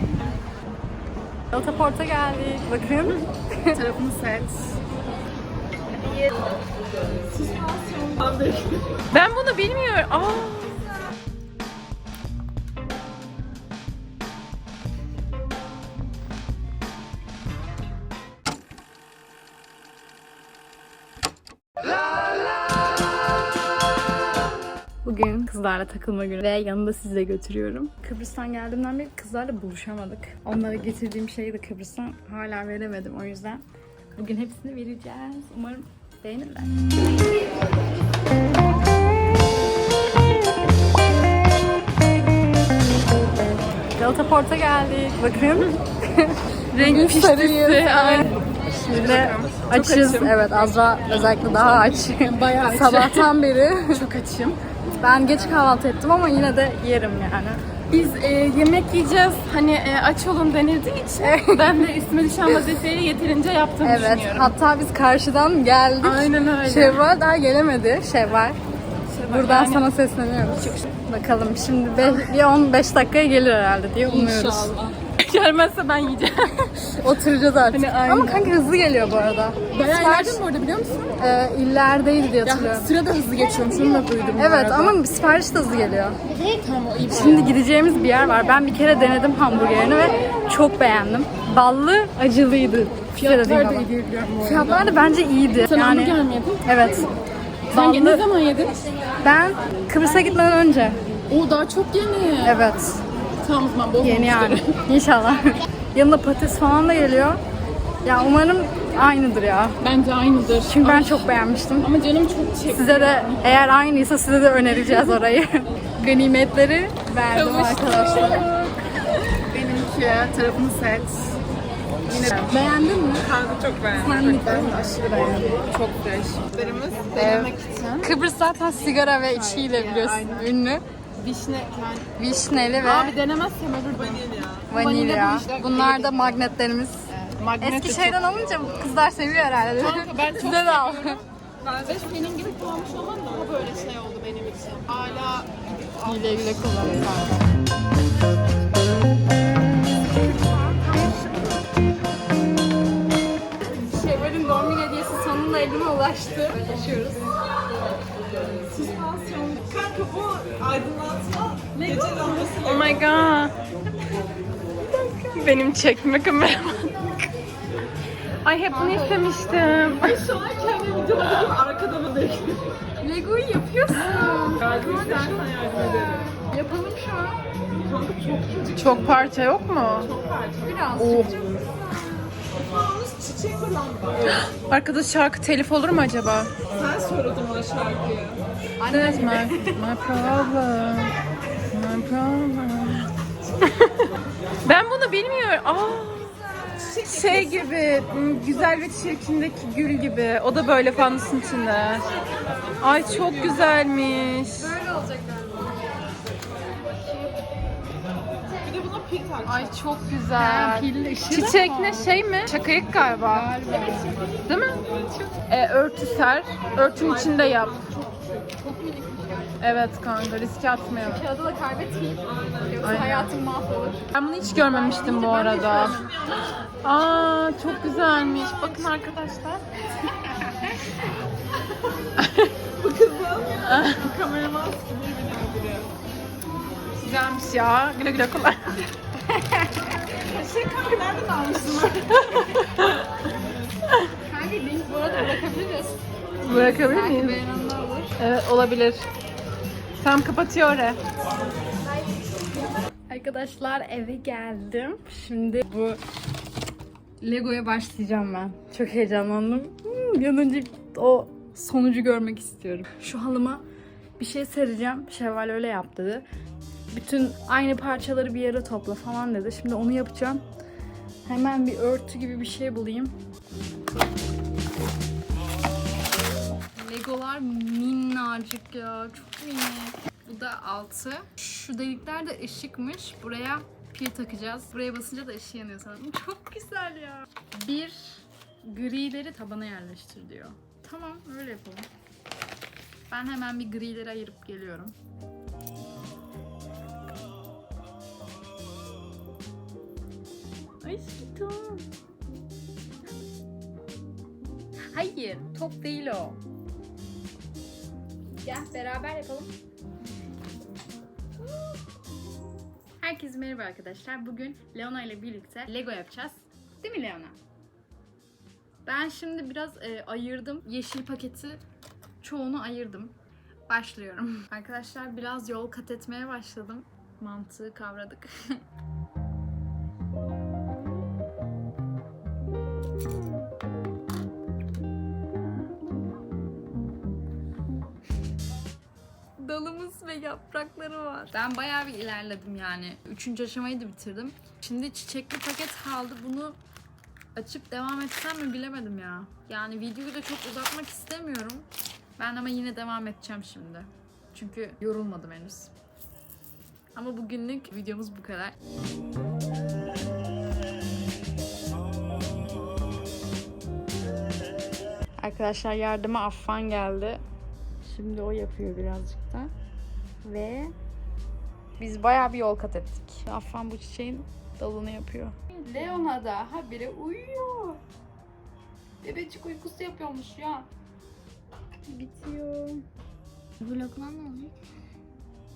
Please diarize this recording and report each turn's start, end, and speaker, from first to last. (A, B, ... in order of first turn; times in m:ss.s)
0:01.5-0:03.8 A
0:03.8-0:04.8 B
0:07.5-0:08.7 C
0:09.0-0:10.9 B
0:25.0-0:33.6 A
0:34.2-0:36.8 A
0:44.0-0:54.1 A
0:46.7-0:50.4 B
0:52.2-0:53.4 B
0:53.9-0:54.6 B
0:55.0-0:57.6 A
0:57.9-1:04.6 B
1:01.2-1:01.7 A
1:03.8-1:08.6 A
1:06.0-1:07.1 B
1:09.1-1:09.9 B
1:09.3-1:14.8 A
1:14.0-1:17.2 B
1:17.0-1:20.4 A
1:17.7-1:18.5 B
1:19.7-1:21.1 B
1:21.2-1:22.9 A
1:22.4-1:25.0 B
1:24.4-1:26.2 A
1:26.3-1:27.6 B
1:27.1-1:33.9 A
1:33.1-1:35.1 B
1:34.4-1:37.1 A
1:35.6-1:37.1 B
1:37.7-1:38.3 A
1:37.7-1:38.8 B
1:39.2-1:41.0 A
1:41.3-1:42.6 B
1:42.4-1:43.0 A
1:43.4-1:44.8 B
1:44.0-1:47.4 A
1:48.0-1:49.8 A
1:49.8-1:53.6 B
1:50.6-1:51.9 A
1:52.7-1:58.8 A
1:57.3-1:58.7 B
1:59.3-2:01.4 B
2:02.1-2:02.5 B
2:02.2-2:03.3 A
2:03.2-2:08.2 B
2:04.0-2:05.6 A
2:07.2-2:07.5 A
2:08.0-2:10.8 A
2:09.3-2:10.5 B
2:11.2-2:12.1 B
2:12.2-2:13.2 A
2:12.8-2:16.4 B
2:14.7-2:21.2 A
2:17.2-2:18.2 B
2:19.8-2:26.8 B
2:26.0-2:27.4 A
2:30.7-2:31.3 A
2:33.7-2:37.3 A
2:38.8-2:39.6 B
2:38.9-2:42.5 C
2:41.8-2:42.5 A
2:42.4-2:43.6 B
2:44.9-2:45.3 A
2:45.3-2:47.1 B
2:48.4-2:50.4 B
2:48.7-2:49.3 A
2:50.2-2:52.6 C
2:53.0-2:57.4 A
2:53.9-2:54.9 B
2:55.2-2:56.2 C
2:57.9-2:58.8 C
2:58.7-3:00.2 B
3:00.2-3:00.7 C
3:00.6-3:02.3 A
3:00.9-3:01.6 B
3:02.6-3:04.2 C
3:04.2-3:06.7 B
3:06.8-3:08.4 C
3:08.8-3:09.8 A
3:08.8-3:11.2 B
3:11.7-3:14.1 B
3:14.6-3:22.1 B
3:16.5-3:17.6 A
3:22.8-3:24.8 B
3:24.5-3:25.8 A
3:28.7-3:29.5 C
3:29.4-3:33.5 B
3:30.3-3:32.1 A
3:33.2-3:34.3 A
3:34.4-3:37.9 B
3:38.6-3:39.6 A
3:39.6-3:41.2 B
3:41.0-3:46.3 A
3:42.8-3:43.4 B
3:44.1-3:46.0 B
3:46.7-3:49.6 B
3:52.2-3:52.7 B
3:52.8-3:55.9 C
3:53.6-3:54.3 B
3:57.0-3:58.9 B
3:59.3-4:00.0 A
4:00.3-4:03.1 B
4:00.5-4:01.4 C
4:04.2-4:08.2 A
4:06.4-4:07.4 B
4:08.2-4:09.1 B
4:10.0-4:11.0 B
4:13.1-4:16.0 A
4:17.2-4:23.6 A
4:24.2-4:26.3 A
4:26.9-4:30.4 A
4:31.2-4:33.2 A
4:36.8-4:51.9 A
4:53.1-4:55.0 A
5:00.8-5:01.8 A
5:04.9-5:06.4 A
5:08.4-5:09.5 A
5:13.0-5:17.4 A
5:18.8-5:21.6 A
5:22.2-5:23.2 A
5:23.7-5:28.6 A
5:39.4-5:46.6 A
5:47.4-5:51.7 A
5:52.2-5:55.7 A
5:57.0-5:58.6 A
6:05.2-6:07.2 A
6:07.8-6:09.5 A
6:10.2-6:10.8 A
6:11.8-6:17.8 A
6:19.0-6:20.7 A
6:21.9-6:22.8 A
6:23.6-6:24.6 A